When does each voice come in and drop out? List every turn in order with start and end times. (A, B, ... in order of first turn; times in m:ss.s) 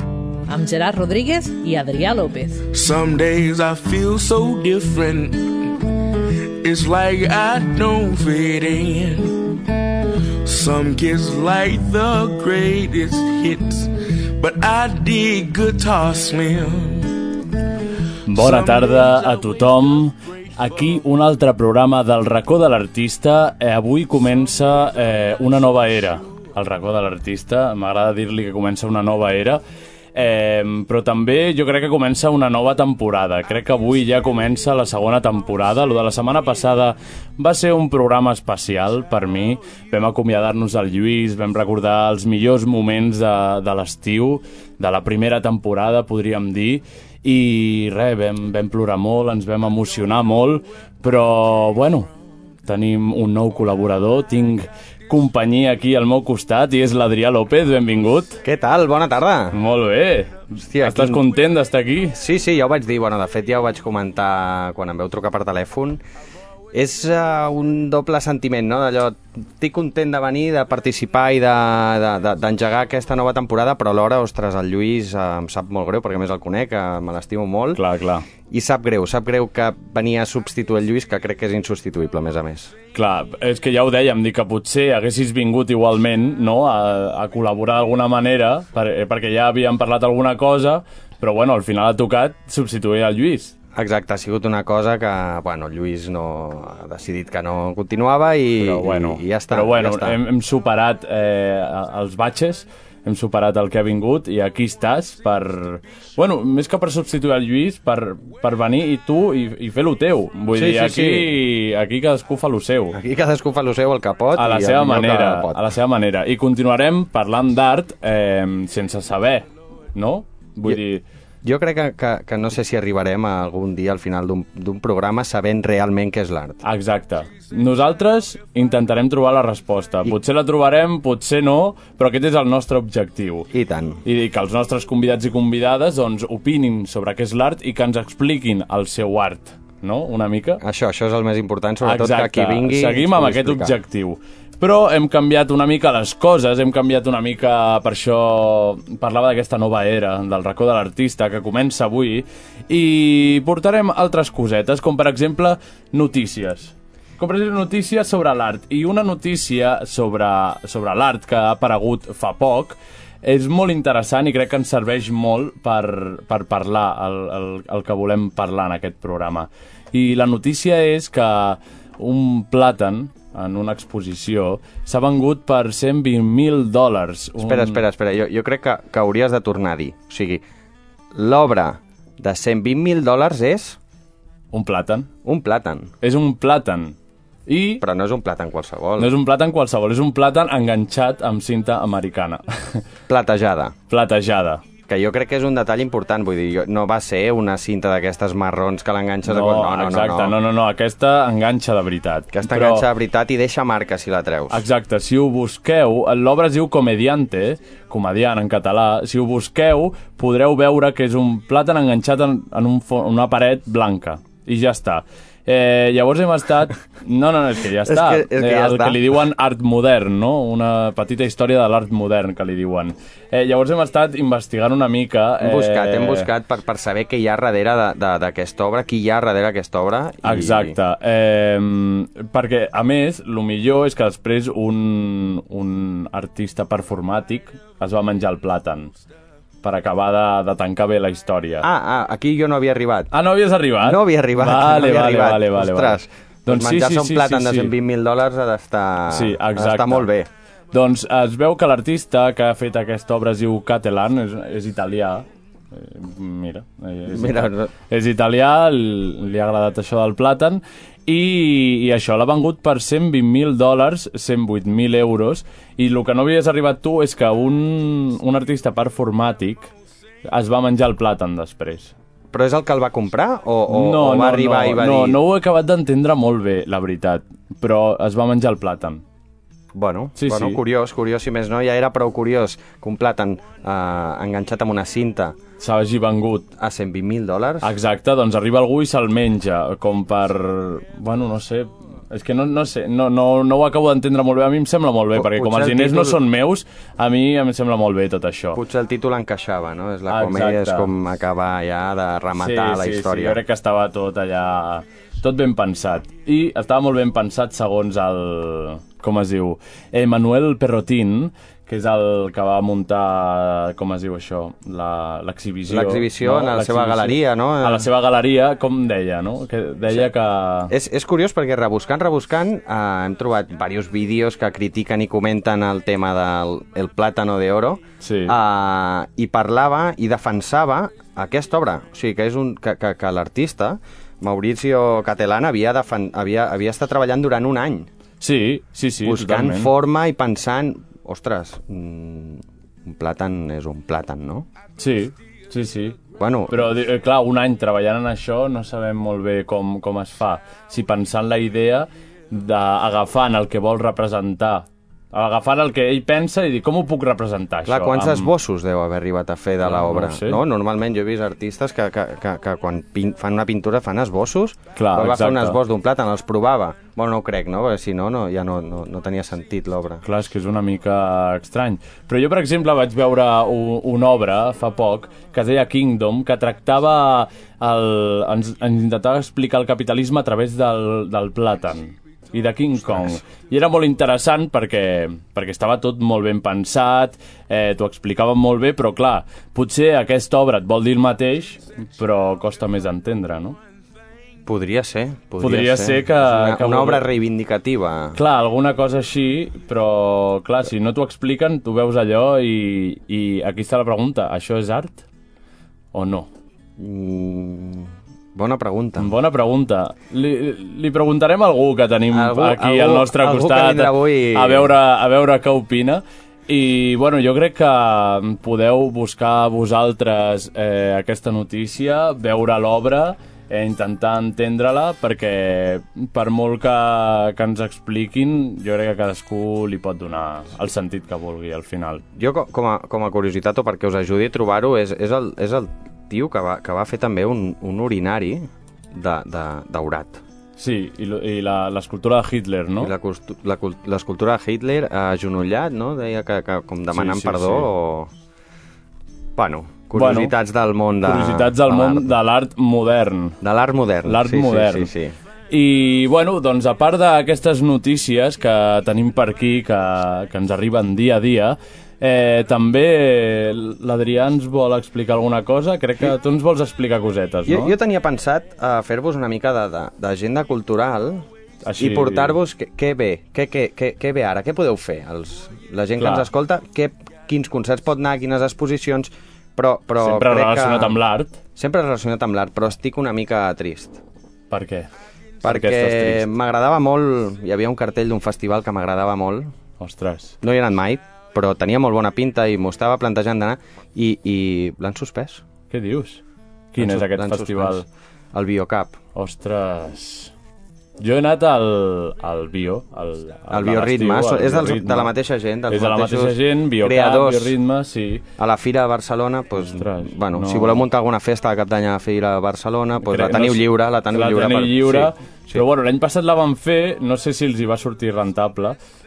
0:00.5-0:02.6 A
0:02.7-0:20.6 B
0:18.3-0:29.6 C
0:30.2-0:52.1 C
0:52.6-0:58.4 C
0:58.4-0:59.6 D
0:59.5-1:02.2 C
1:00.6-1:01.2 D
1:02.2-1:06.0 D
1:06.7-1:17.8 D
1:17.8-1:18.3 C
1:18.5-1:22.7 D
1:22.9-1:33.5 C
1:33.8-1:40.2 D
1:38.6-1:53.0 C
1:50.5-1:51.4 D
1:52.9-1:55.7 D
1:54.4-2:01.0 C
2:01.4-2:06.6 D
2:06.6-2:13.5 C
2:13.5-2:14.0 D
2:14.0-2:20.6 C
2:20.6-2:23.8 D
2:21.8-2:57.8 C
2:57.4-3:00.4 D
3:01.1-3:03.8 D
3:04.5-3:05.1 C
3:05.2-3:05.9 D
3:06.0-3:07.0 C
3:07.5-3:07.8 C
3:07.8-3:09.1 D
3:09.0-3:12.8 C
3:13.1-3:13.8 D
3:13.9-3:14.7 C
3:14.9-3:20.4 D
3:19.3-3:22.8 C
3:22.3-3:24.7 D
3:24.5-3:46.3 C
3:37.8-3:39.0 D
3:45.4-3:50.8 D
3:50.2-3:58.9 C
3:59.6-4:01.7 C
4:01.6-4:03.1 D
4:03.1-4:07.7 C
4:03.8-4:10.3 D
4:09.1-4:10.1 C
4:10.7-4:29.7 C
4:17.1-4:17.7 D
4:30.2-4:31.9 C
4:32.3-4:35.2 D
4:33.7-4:39.0 C
4:39.7-4:45.4 D
4:40.2-4:40.6 C
4:45.6-4:46.5 C
4:46.6-4:47.7 D
4:47.6-4:58.6 C
4:55.1-4:56.2 D
4:58.5-5:03.4 D
5:00.1-5:00.9 C
5:02.4-5:20.7 C
5:15.7-5:17.9 D
5:20.7-5:37.9 D
5:28.0-5:28.4 C
5:38.2-5:39.7 C
5:39.0-5:44.5 D
5:44.8-5:58.3 C
5:46.2-5:46.7 D
5:57.7-6:10.0 D
5:59.6-6:00.4 C
6:04.8-6:05.6 C
6:10.0-6:33.6 C
6:34.5-6:38.2 D
6:35.4-6:37.1 C
6:38.2-6:45.0 C
6:45.9-6:46.3 C
6:46.8-6:49.1 D
6:49.0-7:12.0 C
6:52.1-6:54.7 D
7:12.2-7:20.2 D
7:20.6-7:22.9 C
7:22.8-7:28.1 D
7:26.9-7:27.7 C
7:29.4-7:32.2 D
7:30.0-7:30.4 C
7:31.0-7:33.4 C
7:33.4-7:35.2 D
7:34.0-7:34.9 C
7:35.5-7:47.7 C
7:47.5-7:51.3 D
7:51.6-7:52.4 C
7:51.8-8:01.0 D
7:56.0-7:56.3 C
8:00.0-8:01.4 C
8:01.6-8:04.0 D
8:04.5-8:04.9 C
8:05.4-8:06.3 C
8:05.4-8:09.5 D
8:09.8-8:10.4 C
8:10.4-8:15.4 D
8:15.7-8:16.2 C
8:16.7-8:17.8 C
8:16.8-8:19.0 D
8:19.2-8:20.3 C
8:21.0-8:25.1 C
8:23.5-8:27.6 D
8:25.7-8:28.3 C
8:28.4-8:35.6 D
8:29.6-8:30.8 C
8:33.1-8:38.8 C